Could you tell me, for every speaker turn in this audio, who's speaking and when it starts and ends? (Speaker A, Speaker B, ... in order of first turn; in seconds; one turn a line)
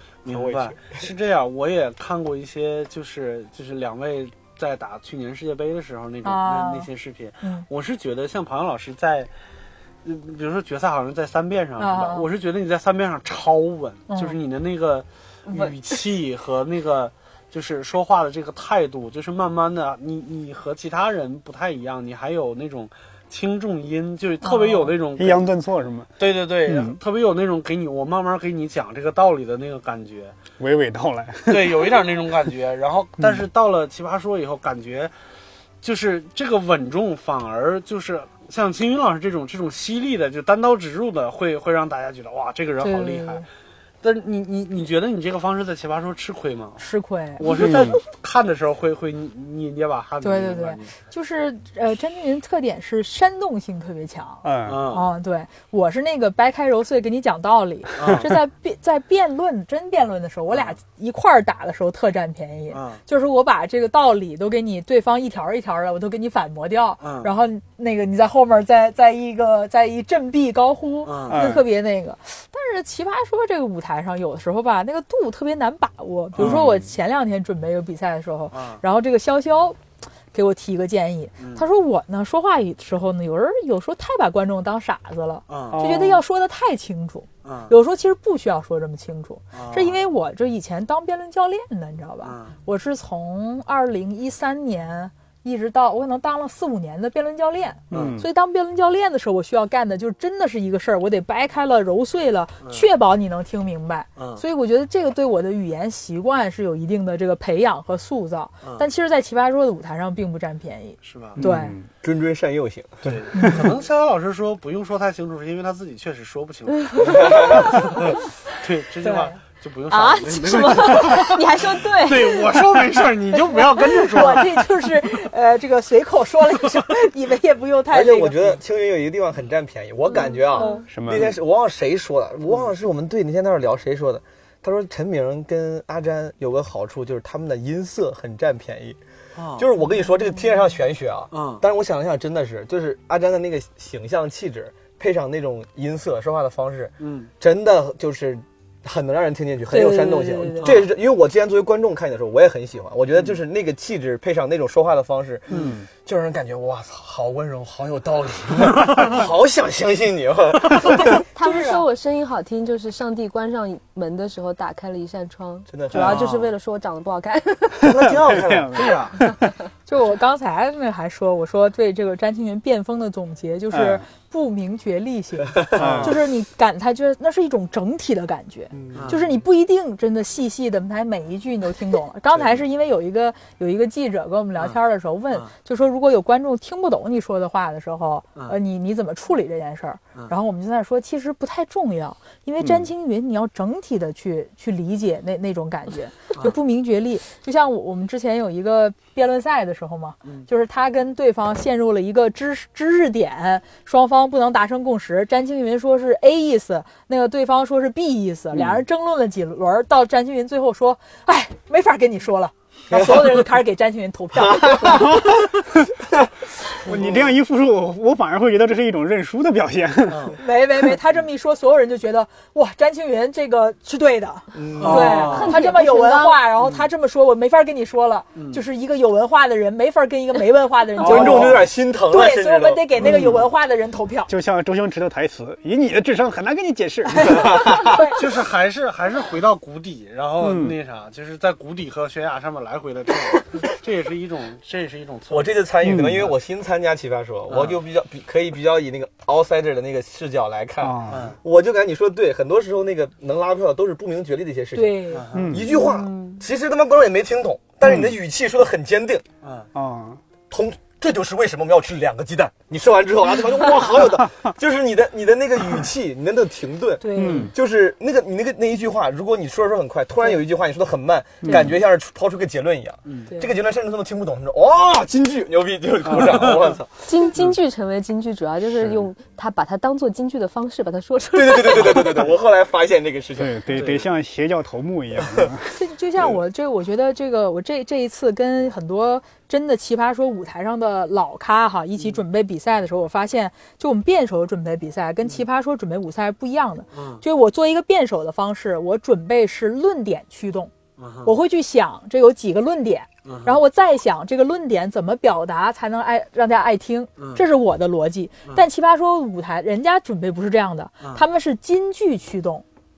Speaker A: 0.2-9.3
Speaker B: 6.2-6.9
Speaker A: 10.0-25.5
Speaker B: 11.8-12.3
Speaker B: 14.1-14.4
Speaker C: 15.5-15.8
Speaker B: 24.4-24.9
Speaker D: 25.1-26.1
Speaker A: 26.2-30.3
Speaker D: 26.6-27.0
Speaker D: 30.6-32.0
Speaker A: 31.5-35.1
Speaker A: 35.8-43.5
Speaker B: 42.8-43.5
Speaker A: 44.0-46.8
Speaker B: 46.8-47.8
Speaker A: 47.4-50.9
Speaker D: 47.5-48.0
Speaker B: 50.2-79.8
Speaker D: 54.4-54.9
Speaker A: 54.6-55.1
Speaker A: 58.0-58.3
Speaker A: 60.5-60.8
Speaker A: 62.7-63.0
Speaker A: 67.0-67.3
Speaker A: 71.0-71.5
Speaker D: 71.3-71.7
Speaker A: 76.4-76.6
Speaker D: 76.4-76.9
Speaker A: 78.5-78.8
Speaker B: 80.3-111.8
Speaker A: 81.4-81.7
Speaker A: 85.5-85.8
Speaker D: 85.7-86.2
Speaker A: 87.4-87.7
Speaker A: 89.5-90.0
Speaker A: 92.2-92.6
Speaker D: 97.9-98.3
Speaker A: 97.9-98.2
Speaker A: 104.2-104.4
Speaker A: 108.6-108.9
Speaker A: 111.0-111.4
Speaker D: 111.4-111.9
Speaker E: 112.0-113.2
Speaker A: 113.0-124.5
Speaker B: 113.3-113.7
Speaker C: 116.8-117.8
Speaker E: 117.0-117.7
Speaker B: 119.0-119.3
Speaker C: 119.9-122.8
Speaker C: 123.5-124.4
Speaker B: 124.1-128.6
Speaker E: 127.9-139.0
Speaker C: 130.1-130.9
Speaker B: 130.6-130.8
Speaker D: 130.9-131.3
Speaker A: 139.3-139.7
Speaker E: 139.6-161.2
Speaker A: 141.3-141.6
Speaker A: 147.0-147.3
Speaker C: 149.7-150.7
Speaker A: 150.6-150.9
Speaker A: 155.5-155.8
Speaker D: 155.5-155.9
Speaker C: 161.1-168.0
Speaker B: 161.4-161.8
Speaker E: 165.7-166.2
Speaker A: 166.0-166.5
Speaker E: 167.8-168.9
Speaker D: 167.9-169.0
Speaker A: 168.7-169.1
Speaker C: 169.2-169.5
Speaker B: 169.9-215.2
Speaker D: 173.7-174.1
Speaker E: 175.7-176.0
Speaker D: 175.7-176.2
Speaker D: 178.8-179.1
Speaker A: 178.9-179.3
Speaker D: 192.6-192.9
Speaker D: 208.5-208.8
Speaker E: 212.9-213.4
Speaker E: 214.4-215.3
Speaker D: 216.8-220.4
Speaker A: 216.9-217.3
Speaker A: 220.1-220.4
Speaker B: 220.4-234.3
Speaker E: 224.5-225.4
Speaker A: 224.8-225.6
Speaker C: 224.8-226.4
Speaker A: 228.3-228.6
Speaker D: 231.0-231.6
Speaker E: 231.0-233.1
Speaker D: 233.0-233.5
Speaker D: 234.3-237.9
Speaker B: 237.2-238.2
Speaker E: 237.4-237.8
Speaker A: 238.2-245.6
Speaker D: 240.4-240.7
Speaker E: 245.3-259.2
Speaker D: 245.8-246.3
Speaker A: 247.5-247.8
Speaker D: 250.8-251.3
Speaker A: 251.1-251.4
Speaker B: 254.7-255.3
Speaker A: 255.1-255.5
Speaker D: 255.3-255.7
Speaker C: 255.7-256.4
Speaker A: 259.4-259.7
Speaker D: 259.7-260.2
Speaker E: 260.5-276.9
Speaker B: 267.0-267.5
Speaker D: 267.1-267.5
Speaker D: 271.4-271.7
Speaker A: 273.1-273.3
Speaker D: 276.1-276.4
Speaker A: 276.2-276.7
Speaker C: 277.0-282.3
Speaker E: 281.3-283.8
Speaker D: 283.4-285.8
Speaker A: 283.7-284.1
Speaker B: 285.7-300.7
Speaker A: 296.9-297.2
Speaker A: 301.0-301.4
Speaker B: 301.2-312.6
Speaker A: 303.2-303.6
Speaker A: 307.2-307.4